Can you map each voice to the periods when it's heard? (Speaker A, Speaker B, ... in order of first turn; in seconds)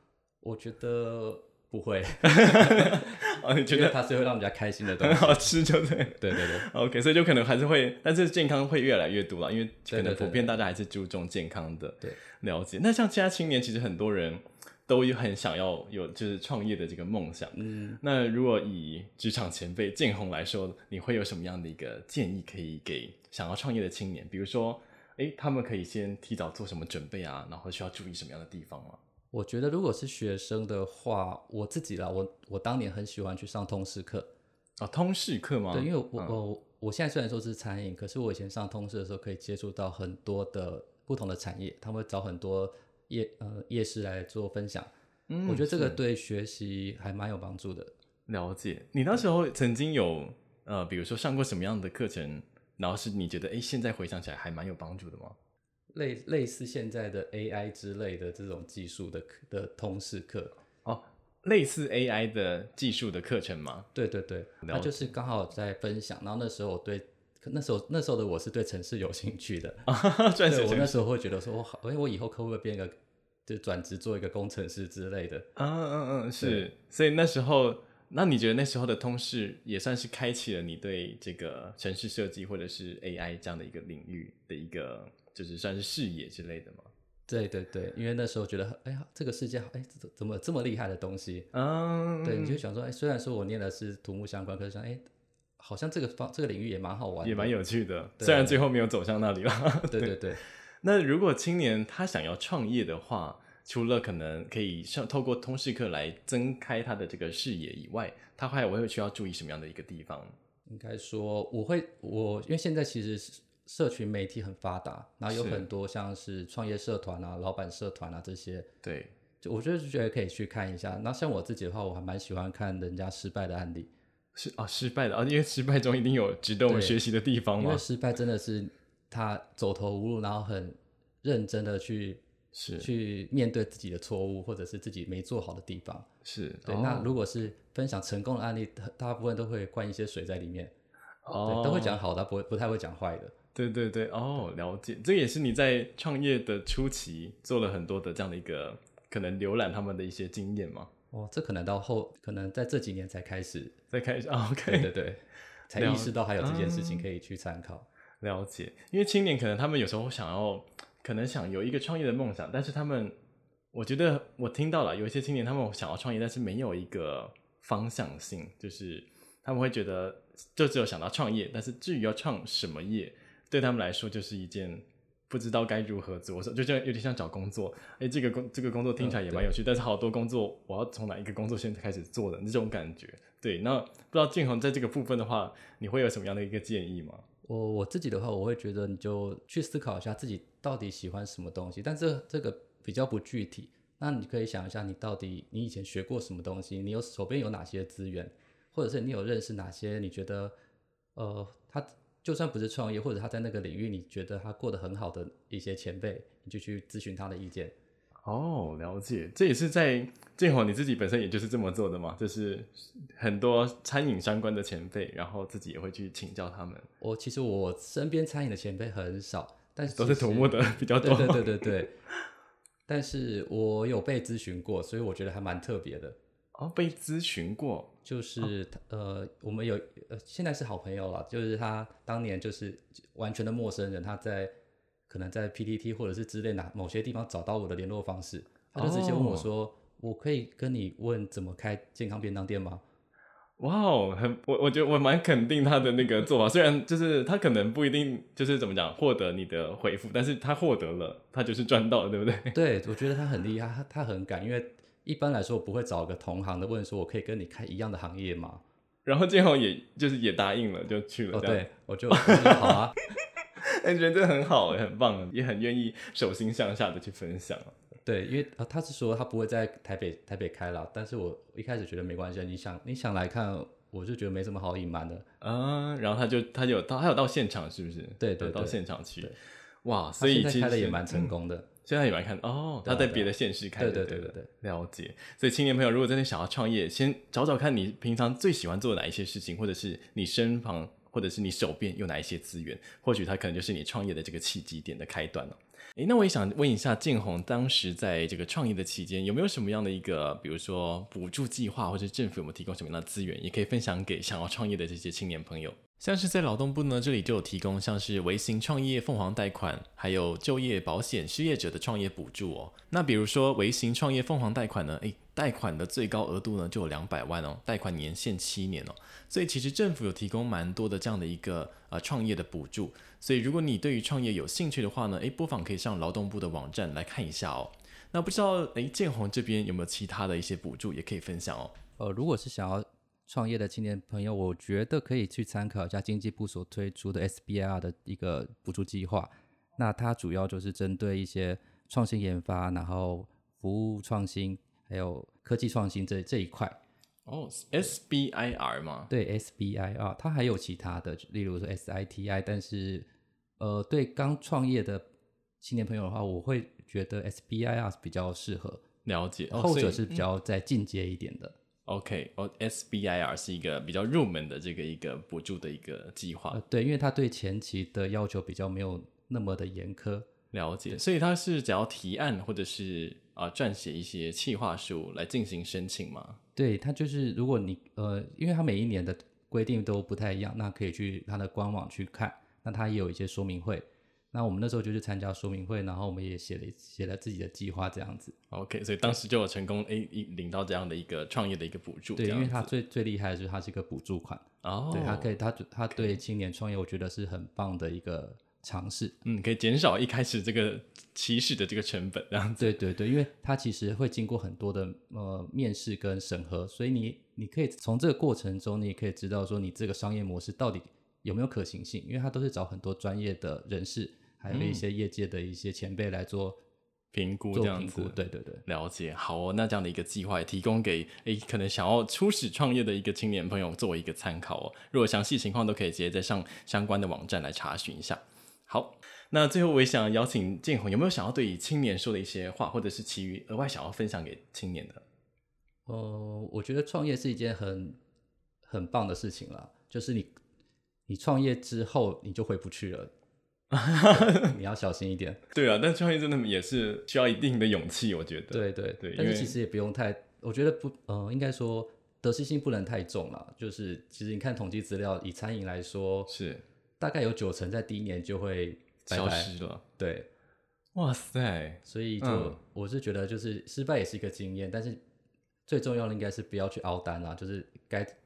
Speaker A: 0.4-5.5, 6.1-6.7, 9.9-10.5, 17.5-18.0, 29.3-34.3, 35.7-44.9, 45.5-47.9, 55.9-60.5, 63.9-69.8, 70.5-72.9, 73.5-75.5, 76.4-76.7, 87.3-91.5, 92.2-95.0, 95.6-97.5, 98.2-98.6, 99.9-100.4, 110.7-118.7, 119.4-123.9, 126.7-127.0, 127.6-132.2, 132.8-136.1, 136.7-140.7, 141.4-143.3, 151.1-153.8, 154.7-157.9, 179.0-179.5, 187.4-200.5, 201.2-207.7, 217.0-221.9, 222.9-226.2, 228.0-234.5, 235.1-242.8, 252.5-258.6, 261.3-262.9, 268.0-275.2, 278.2-279.4, 280.2-281.7, 282.9-284.5, 332.0-346.8, 349.1-355.1, 355.6-358.8, 359.5-361.6, 366.5-370.3, 376.6-388.4, 392.1-399.2, 402.6-416.6, 417.5-418.6, 435.9-438.0, 438.6-440.3, 441.1-443.1, 444.1-445.4, 448.5-456.3, 457.0-460.3, 461.8-465.0, 465.7-468.1
Speaker B: 2.2-4.0, 5.0-29.0, 34.8-36.4, 45.3-46.0, 48.3-55.4, 60.9-63.9, 64.6-65.1, 69.9-71.0, 75.5-86.9, 91.5-92.6, 97.2-100.2, 100.8-110.3, 115.3-115.7, 118.8-119.1, 124.3-127.8, 132.5-132.9, 136.2-137.1, 141.2-142.0, 143.5-150.9, 153.9-154.9, 155.8-157.1, 158.2-163.2, 163.7-187.2, 208.2-216.9, 219.9-221.8, 226.5-227.9, 238.8-239.5, 243.6-252.5, 259.0-262.8, 263.6-267.7, 275.4-281.3, 281.9-331.7, 347.3-349.1, 359.1-360.2, 361.9-366.6, 370.5-376.4, 388.5-392.7, 394.6-395.3, 399.2-402.8, 414.5-414.8, 417.1-435.0, 443.7-444.5, 445.5-449.5, 456.3-456.6, 459.1-459.8, 460.9-462.6